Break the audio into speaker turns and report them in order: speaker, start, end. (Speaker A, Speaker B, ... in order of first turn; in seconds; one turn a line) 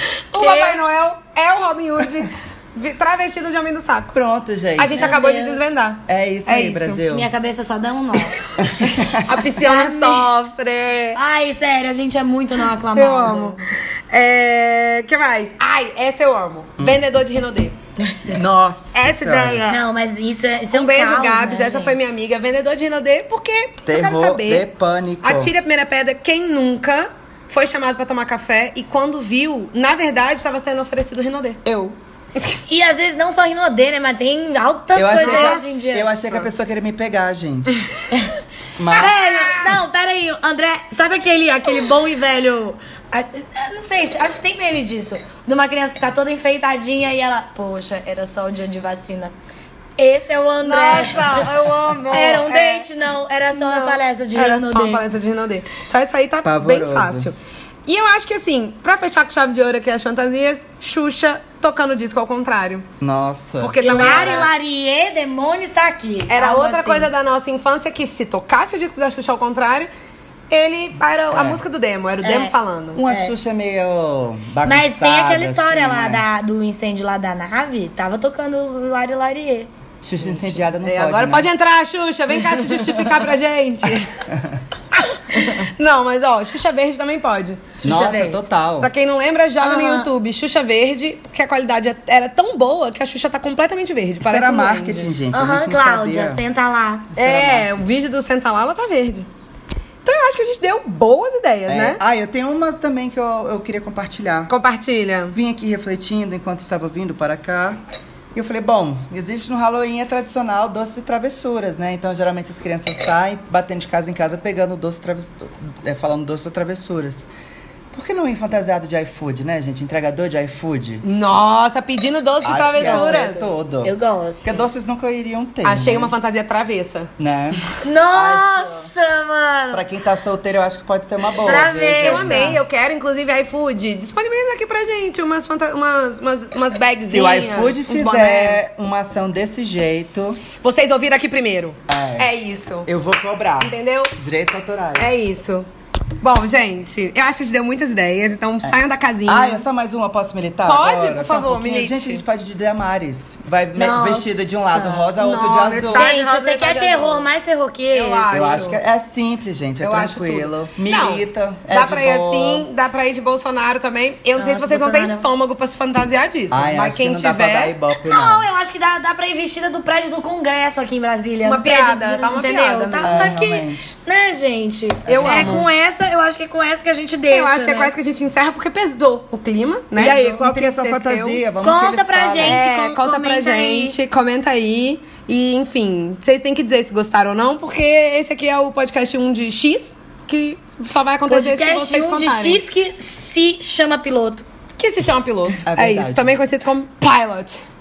Speaker A: 0.3-4.2
Speaker B: 0.3-0.8
Speaker C: 4.1-5.2
Speaker A: 4.8-7.0
Speaker B: 4.9-5.6
Speaker C: 6.1-7.3
Speaker B: 7.1-8.4
Speaker C: 8.6-9.4
Speaker A: 8.8-11.2
Speaker B: 9.6-10.3
Speaker B: 11.2-13.6
Speaker A: 12.9-17.8
Speaker C: 18.2-19.6
Speaker A: 18.9-19.9
Speaker B: 19.7-22.0
Speaker A: 20.7-24.7
Speaker C: 23.9-25.5
Speaker A: 25.2-31.6
Speaker C: 31.6-32.0
Speaker B: 32.7-36.1
Speaker C: 35.0-37.7
Speaker A: 35.1-35.7
Speaker B: 38.1-38.4
Speaker C: 38.8-39.2
Speaker B: 38.9-49.3
Speaker B: 50.0-51.5
Speaker A: 50.6-52.9
Speaker B: 52.1-55.0
Speaker A: 53.5-57.4
Speaker C: 56.4-57.3
Speaker A: 57.9-62.9
Speaker C: 63.0-64.5
Speaker A: 63.6-64.6
Speaker B: 63.8-67.1
Speaker A: 66.3-69.9
Speaker A: 70.5-73.0
Speaker C: 71.3-71.6
Speaker B: 72.2-72.5
Speaker C: 73.0-76.3
Speaker B: 73.0-73.3
Speaker B: 74.7-79.7
Speaker C: 80.0-81.5
Speaker A: 80.8-84.1
Speaker A: 85.3-87.7
Speaker B: 87.8-88.4
Speaker C: 87.8-88.9
Speaker A: 88.8-95.2
Speaker B: 89.6-90.1
Speaker C: 94.2-96.4
Speaker B: 95.3-97.1
Speaker A: 97.2-99.3
Speaker C: 97.2-97.7
Speaker A: 100.0-102.0
Speaker C: 101.7-104.5
Speaker A: 104.5-105.4
Speaker C: 105.3-107.8
Speaker C: 108.3-117.3
Speaker C: 117.9-121.0
Speaker A: 121.0-123.5
Speaker C: 122.4-126.1
Speaker B: 122.8-124.7
Speaker A: 125.6-127.1
Speaker C: 127.2-128.9
Speaker B: 127.8-129.8
Speaker C: 129.7-132.6
Speaker B: 131.4-132.6
Speaker A: 131.9-138.6
Speaker C: 137.1-140.4
Speaker A: 140.6-142.9
Speaker C: 141.9-142.3
Speaker C: 142.9-145.2
Speaker A: 143.6-144.1
Speaker A: 145.0-145.7
Speaker A: 146.2-149.7
Speaker C: 148.6-156.1
Speaker A: 150.7-152.2
Speaker B: 153.7-155.2
Speaker A: 155.2-157.3
Speaker B: 155.9-158.7
Speaker A: 157.9-158.8
Speaker C: 158.3-162.7
Speaker A: 159.8-167.8
Speaker B: 164.4-165.3
Speaker C: 166.5-168.5
Speaker B: 168.1-177.9
Speaker A: 171.4-173.3
Speaker C: 173.0-173.9
Speaker C: 175.1-175.6
Speaker A: 175.1-175.7
Speaker A: 177.3-181.4
Speaker C: 179.9-182.6
Speaker B: 181.6-184.0
Speaker A: 182.4-192.6
Speaker B: 191.3-194.4
Speaker A: 194.8-197.6
Speaker C: 195.7-196.4